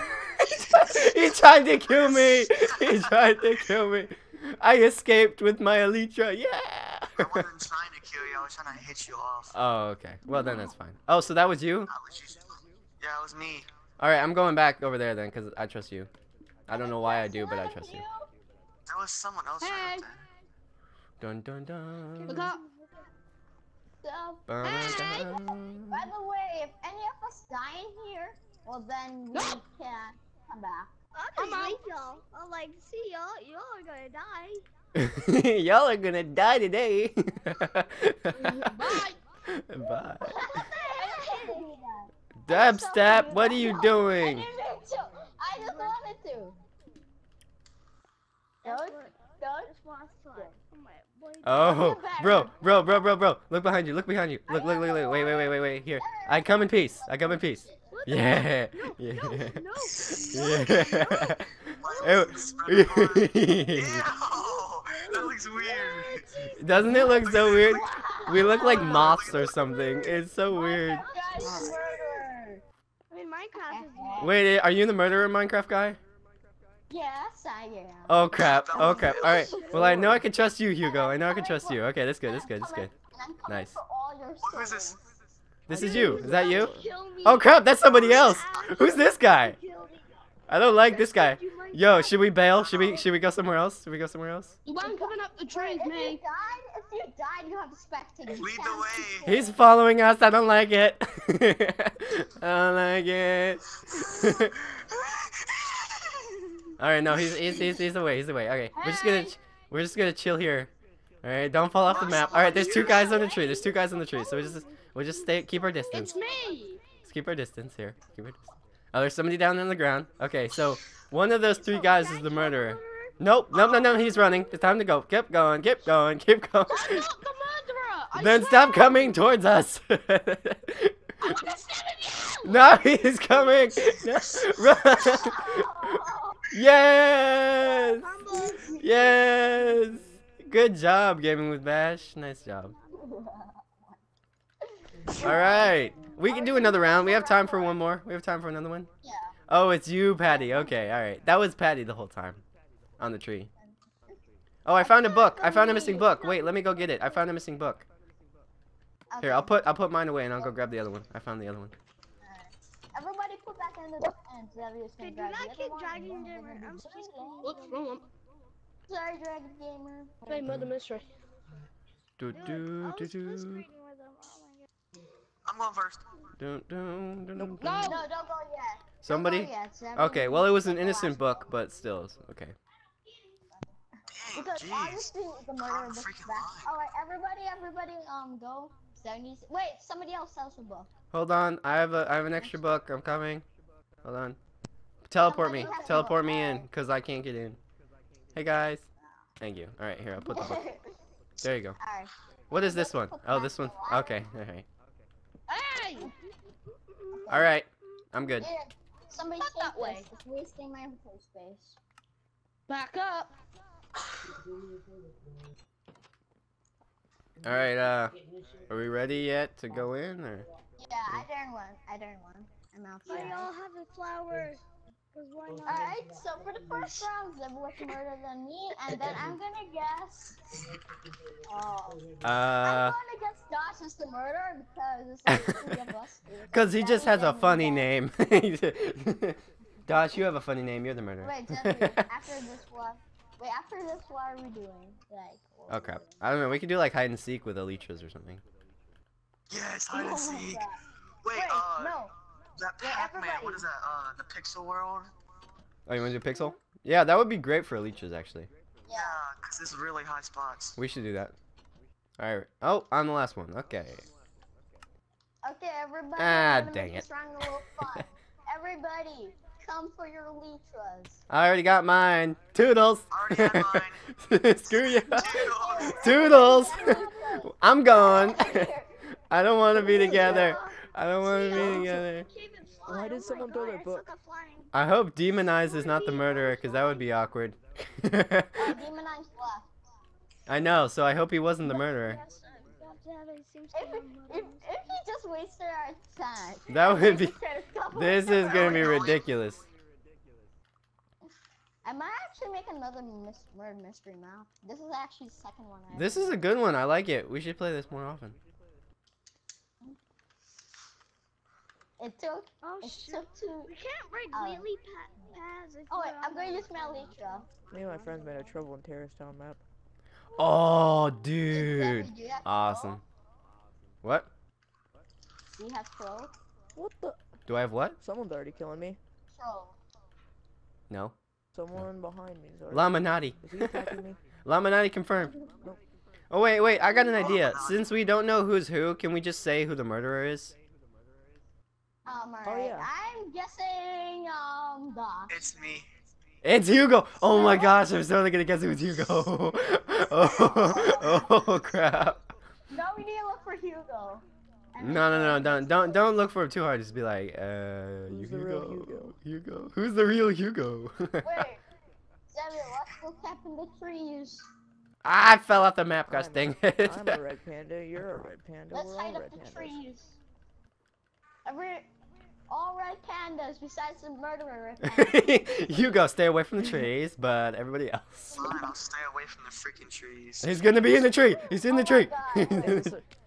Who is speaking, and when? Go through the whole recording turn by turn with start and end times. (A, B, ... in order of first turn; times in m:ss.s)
0:00.4-0:01.1 A
0:00.5-0:07.5 B
0:01.9-0:03.7 A
0:07.2-0:09.5 A
0:09.5-0:11.9 B
0:11.9-0:13.7 A
0:14.0-0:16.1 B
0:16.7-0:18.0 B
0:16.7-0:18.3 C
0:18.9-0:20.2 A
0:19.6-0:20.1 D
0:21.2-0:22.5 B
0:22.2-0:23.1 E
0:22.3-0:22.6 D
0:24.0-0:25.4 C
0:24.5-0:26.1 B
0:24.6-0:25.2 D
0:25.9-0:31.6 C
0:29.3-0:29.6 D
0:31.1-0:34.6 E
0:31.4-0:31.8 D
0:35.0-0:38.7 B
0:38.4-0:39.2 D
0:39.6-0:40.6 B
0:40.2-0:46.6 C
0:40.9-0:41.7 E
0:42.4-0:44.5 B
0:45.5-0:46.0 E
0:48.6-0:51.9 E
0:48.6-0:49.7 C
0:51.4-0:59.6 B
0:51.6-0:52.8 C
0:54.5-0:58.4 C
0:57.9-0:58.6 E
0:58.7-0:59.0 D
0:59.1-1:00.0 E
0:59.9-1:06.5 A
1:00.3-1:04.0 B
1:00.4-1:01.1 C
1:01.8-1:02.5 E
1:04.2-1:07.2 E
1:06.6-1:11.0 B
1:07.0-1:10.0 A
1:07.6-1:09.5 C
1:10.5-1:12.6 C
1:10.7-1:12.2 E
1:11.4-1:11.8 A
1:13.1-1:14.4 E
1:13.6-1:14.3 C
1:14.2-1:16.0 B
1:16.9-1:20.1 C
1:18.1-1:22.9 B
1:18.3-1:19.8 A
1:18.8-1:20.1 E
1:19.8-1:20.2 F
1:20.8-1:25.0 C
1:23.5-1:23.8 B
1:24.4-1:25.2 A
1:25.7-1:26.7 B
1:25.7-1:26.9 F
1:25.7-1:30.1 E
1:27.2-1:29.6 B
1:27.9-1:28.4 A
1:30.5-1:34.6 B
1:30.6-1:32.3 E
1:32.5-1:33.1 A
1:34.6-1:36.2 D
1:34.8-1:39.6 C
1:38.3-1:39.3 A
1:39.2-1:44.6 B
1:43.9-1:46.2 A
1:46.8-1:50.7 B
1:47.1-1:47.8 A
1:48.8-1:49.4 C
1:51.2-1:56.2 B
1:51.8-1:53.6 A
1:53.0-1:56.5 E
1:55.8-1:56.8 D
1:56.0-1:56.6 C
1:57.0-2:07.1 B
2:01.6-2:02.3 E
2:02.3-2:03.1 D
2:03.5-2:04.2 A
2:06.7-2:09.1 D
2:08.2-2:11.0 B
2:11.2-2:12.6 D
2:12.4-2:15.7 B
2:13.8-2:15.2 A
2:15.0-2:16.4 C
2:16.5-2:22.7 B
2:17.6-2:19.9 E
2:18.3-2:18.8 C
2:22.6-2:23.1 E
2:22.9-2:24.0 C
2:25.1-2:27.8 C
2:25.2-2:28.9 B
2:29.0-2:29.3 C
2:29.5-2:32.4 B
2:30.3-2:30.8 C
2:33.0-2:33.5 B
2:33.6-2:34.2 C
2:34.6-2:37.9 B
2:34.8-2:37.3 C
2:39.1-2:39.7 C
2:39.2-2:41.7 B
2:42.2-2:47.7 C
2:45.0-2:48.0 E
2:47.4-2:48.0 D
2:48.9-2:50.6 C
2:50.3-2:51.1 D
2:50.4-2:50.7 B
2:52.2-2:53.6 B
2:52.3-2:54.7 E
2:55.5-2:56.1 A
2:56.4-2:58.0 B
2:57.4-2:57.6 F
2:57.6-2:58.1 D
2:57.8-3:01.5 C
2:59.0-3:02.6 B
3:04.1-3:06.7 A
3:04.3-3:10.9 C
3:11.1-3:13.5 B
3:14.0-3:14.4 B
3:15.1-3:17.6 B
3:15.2-3:16.7 C
3:15.6-3:16.0 E
3:18.4-3:18.8 B
3:19.4-3:20.6 B
3:20.2-3:20.9 C
3:21.4-3:21.8 B
3:21.8-3:24.2 C
3:22.5-3:24.7 B
3:25.5-3:26.1 D
3:27.1-3:27.5 C
3:27.3-3:28.5 B
3:28.4-3:31.8 C
3:29.4-3:30.1 D
3:32.7-3:33.3 D
3:37.4-3:40.5 B
3:40.8-3:43.5 C
3:43.1-3:44.6 E
3:45.1-3:46.0 E
3:45.6-3:50.4 C
3:51.5-3:57.9 C
3:52.2-3:53.0 B
3:55.3-3:55.6 B
3:56.5-4:02.0 B
4:01.2-4:06.2 C
4:05.7-4:08.4 B
4:09.5-4:10.6 A
4:09.9-4:10.7 C
4:11.2-4:15.1 A
4:11.3-4:12.1 C
4:12.8-4:13.6 C
4:15.9-4:18.5 B
4:16.3-4:16.6 E
4:18.9-4:19.2 C
4:18.9-4:20.8 A
4:20.8-4:21.4 B
4:22.2-4:24.1 B
4:25.4-4:31.2 C
4:26.2-4:27.0 B
4:31.3-4:35.4 B
4:33.1-4:34.0 A
4:34.8-4:36.5 A
4:35.2-4:38.9 C
4:36.0-4:38.7 B
4:36.6-4:37.0 E
4:39.3-4:42.3 B
4:40.0-4:40.4 C
4:40.0-4:44.7 E
4:40.1-4:40.6 F
4:41.7-4:42.0 F
4:42.9-4:44.1 F
4:44.7-4:48.7 B
4:45.7-4:47.0 E
4:48.6-4:49.7 C
4:50.5-4:52.2 B
4:51.7-4:55.0 E
4:53.7-4:59.1 C
4:56.7-4:57.4 B
4:57.9-4:59.6 B
4:58.4-4:59.2 A
5:01.8-5:06.4 C
5:05.9-5:08.4 B
5:12.0-5:13.7 C
5:12.6-5:18.6 E
5:14.3-5:14.7 C
5:15.9-5:17.5 C
5:17.7-5:19.6 F
5:20.4-5:23.0 B
5:21.5-5:23.0 C
5:24.0-5:24.3 B
5:25.6-5:26.3 C
5:26.8-5:27.2 F
5:27.5-5:28.0 B
5:28.0-5:29.0 F
5:29.3-5:29.8 C
5:30.9-5:31.2 B
5:31.6-5:34.2 F
5:32.7-5:33.8 B
5:34.4-5:35.4 B
5:36.3-5:40.6 B
5:37.1-5:38.0 A
5:42.1-5:45.5 C
5:42.4-5:42.9 F
5:45.3-5:45.9 A
5:46.4-5:52.2 B
5:47.2-5:47.9 C
5:50.1-5:51.4 C
5:52.7-5:56.1 C
5:54.8-6:01.5 B
5:58.1-5:59.2 F
6:01.2-6:01.6 C
6:02.3-6:04.5 C
6:05.0-6:07.2 B
6:06.1-6:09.8 F
6:08.7-6:10.2 C
6:11.5-6:11.9 C
6:12.5-6:16.1 C
6:14.8-6:18.4 B
6:18.3-6:20.5 A
6:18.3-6:18.7 C
6:20.4-6:22.9 B
6:21.4-6:22.8 C
6:22.4-6:23.1 F